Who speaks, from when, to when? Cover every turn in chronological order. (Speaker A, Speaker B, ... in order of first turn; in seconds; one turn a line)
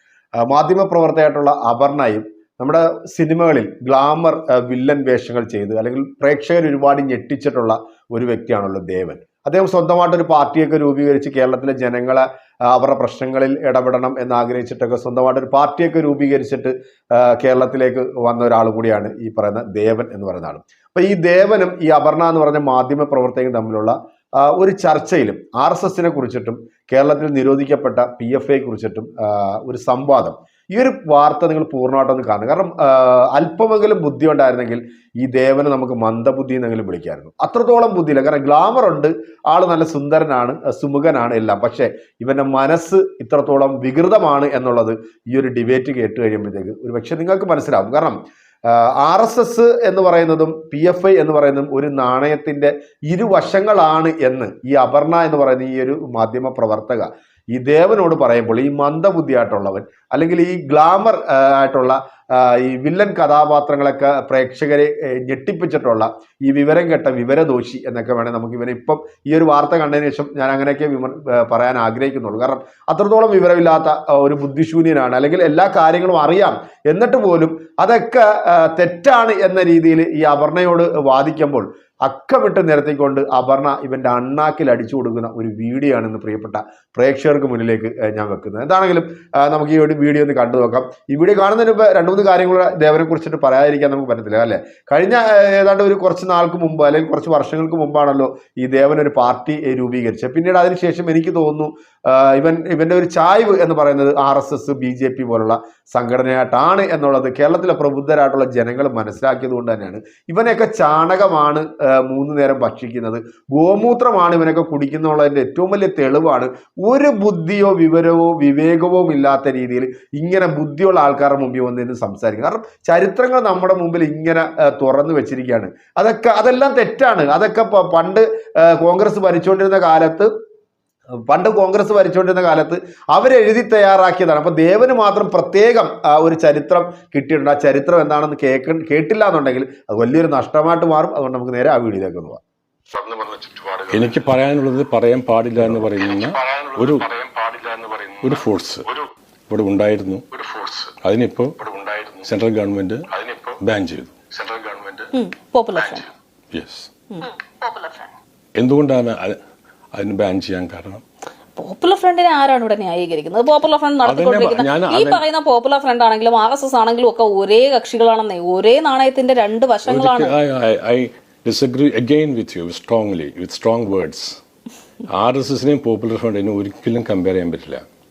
Speaker A: 0.4-130.3
Speaker A: 131.3-142.4
Speaker B: 143.0-143.9
Speaker C: 143.9-147.1
Speaker B: 146.4-148.2
Speaker C: 148.2-148.9
Speaker C: 149.5-150.2
Speaker B: 150.4-150.9
Speaker C: 150.9-151.7
Speaker B: 151.7-152.2
Speaker C: 152.2-154.4
Speaker B: 154.4-155.1
Speaker D: 155.1-156.1
Speaker C: 156.5-156.9
Speaker D: 157.1-158.1
Speaker C: 158.6-159.4
Speaker C: 159.9-161.0
Speaker D: 161.6-170.3
Speaker C: 164.0-165.2
Speaker C: 169.9-174.4
Speaker C: 175.1-177.8